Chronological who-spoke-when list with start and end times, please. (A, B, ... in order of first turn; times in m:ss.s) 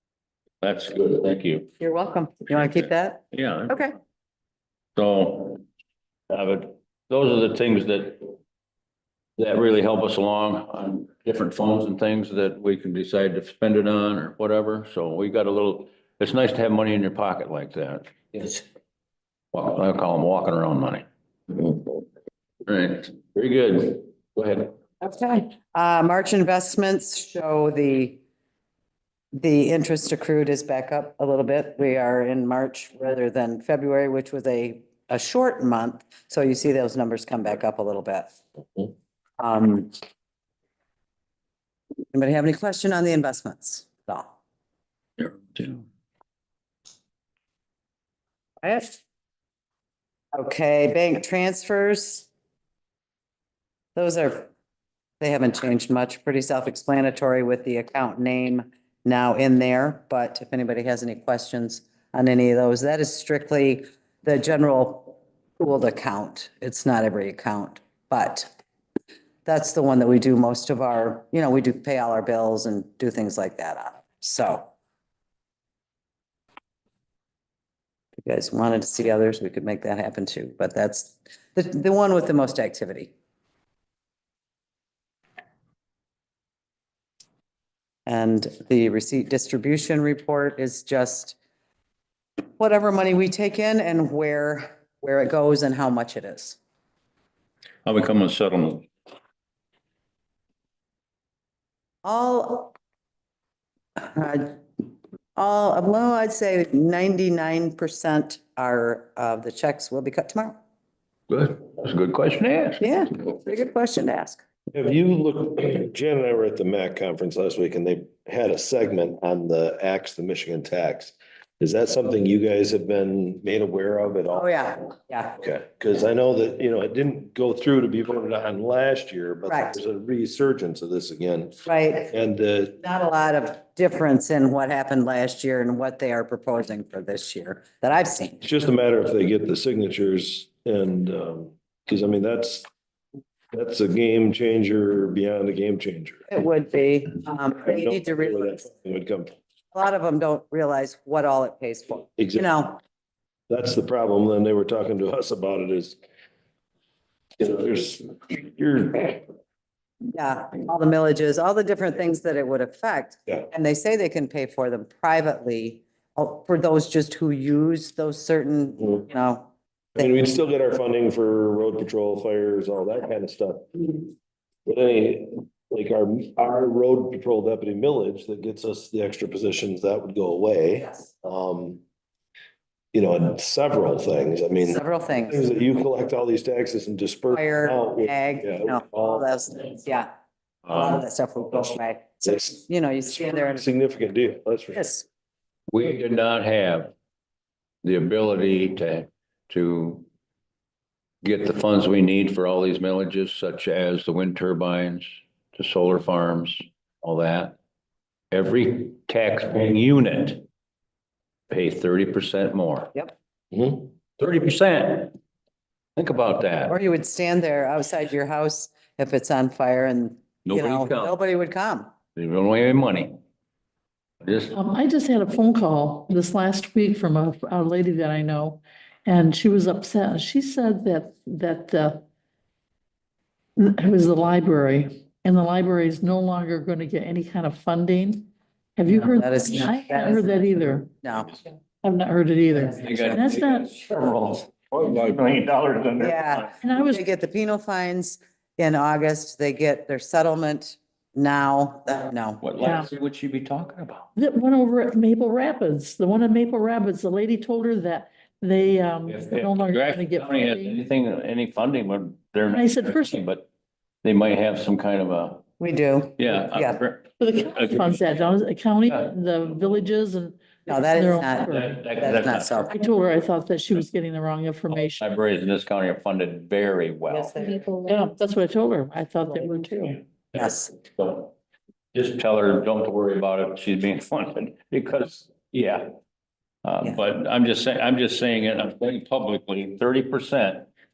0:00.6-0:01.7 A
0:01.8-0:04.0 B
0:03.3-0:03.8 A
0:05.0-0:05.6 A
0:06.3-0:08.3 A
0:09.4-0:18.6 A
0:19.5-0:22.0 A
0:22.6-0:24.7 A
0:25.0-0:28.2 B
0:29.3-0:38.3 B
0:39.4-0:39.9 B
0:42.1-0:44.3 B
0:45.2-0:45.8 A
0:48.6-0:49.0 B
0:50.3-0:52.3 B
0:54.0-0:54.5 B
0:55.2-1:08.5 B
1:09.4-1:14.7 B
1:18.2-1:23.1 B
1:28.0-1:31.4 B
1:32.6-1:36.6 B
1:37.8-1:38.9 A
1:42.0-1:42.7 B
1:44.0-1:44.6 B
1:45.4-1:50.6 B
1:51.3-1:52.8 A
1:52.8-1:54.4 B
1:54.7-2:04.6 C
2:04.3-2:05.4 B
2:05.4-2:12.8 C
2:09.5-2:09.8 B
2:11.6-2:12.1 B
2:12.8-2:18.4 B
2:18.4-2:22.6 C
2:23.5-2:26.2 C
2:26.3-2:28.6 B
2:27.6-2:29.3 C
2:29.7-2:32.8 B
2:32.2-2:32.4 C
2:33.5-2:36.0 C
2:37.4-2:39.2 C
2:40.1-2:50.1 B
2:50.0-2:54.0 C
2:54.6-3:01.8 C
3:02.9-3:09.2 C
3:04.6-3:05.4 B
3:07.3-3:10.1 B
3:10.6-3:11.0 A
3:10.7-3:13.6 B
3:13.5-3:14.8 C
3:14.7-3:15.0 B
3:15.7-3:16.9 A
3:17.8-3:20.1 A
3:21.2-3:27.6 A
3:28.3-3:30.4 A
3:31.5-3:32.9 A
3:33.5-3:33.8 C
3:34.2-3:35.1 A
3:36.0-3:36.8 A
3:36.7-3:41.9 B
3:40.4-3:41.2 A
3:42.1-3:43.2 A
3:44.2-3:44.6 A
3:44.5-3:52.0 D
3:53.6-4:00.9 D
3:58.9-4:00.3 B
4:01.0-4:01.4 B
4:01.8-4:03.7 D
4:02.7-4:06.5 A
4:06.0-4:12.4 B
4:06.6-4:07.0 D
4:12.4-4:14.1 A
4:12.6-4:12.9 D
4:14.2-4:20.8 D
4:19.1-4:23.5 A
4:22.5-4:23.2 D
4:24.0-4:25.4 A
4:25.6-4:26.8 B
4:26.2-4:28.3 A
4:27.2-4:31.8 D
4:28.8-4:29.1 A
4:30.7-4:32.7 B
4:31.4-4:32.7 A
4:32.7-4:35.0 D
4:34.7-4:37.4 A
4:37.1-4:37.7 B
4:37.8-4:40.0 D
4:40.3-4:41.3 A
4:40.3-4:40.7 B
4:41.9-4:45.9 A
4:46.6-4:50.7 A